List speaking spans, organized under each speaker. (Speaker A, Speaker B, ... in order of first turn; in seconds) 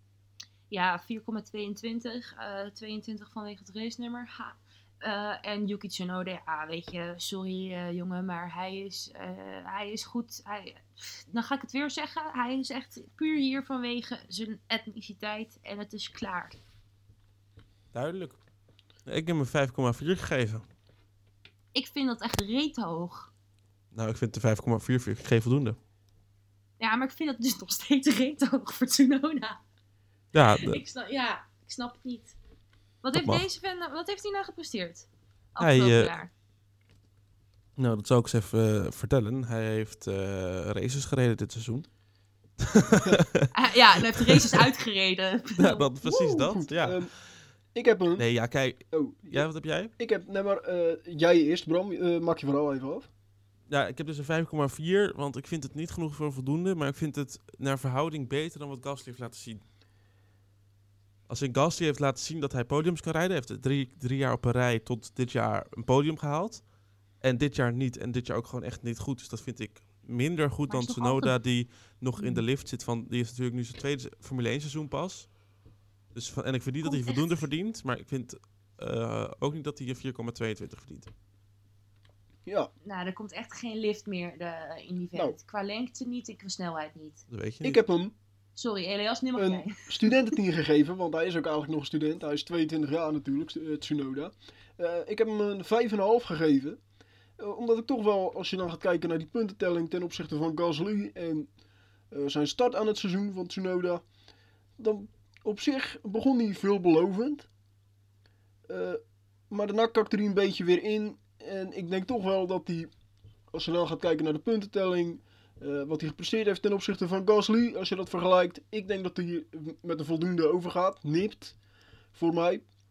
Speaker A: 0.7-16.6, 21.8-23.3, 26.8-29.6, 30.6-32.4, 33.0-36.3, 43.5-46.5, 70.7-71.4, 72.2-72.4, 76.8-77.3, 82.8-87.2, 88.6-90.4
Speaker B: 17.9-18.4, 19.1-20.6, 23.9-25.8, 30.3-30.8, 33.1-33.4, 35.6-36.1, 37.8-41.9, 42.6-43.5, 45.6-47.4, 48.2-49.9, 53.7-59.6, 61.3-66.7, 67.2-75.3, 76.1-81.1, 87.3-87.8
Speaker C: 46.5-47.1, 47.7-48.3, 48.9-53.1, 87.6-88.1, 89.4-96.8, 97.4-101.5, 102.1-104.0, 104.8-107.5, 108.7-112.9, 113.5-121.6, 122.1-122.7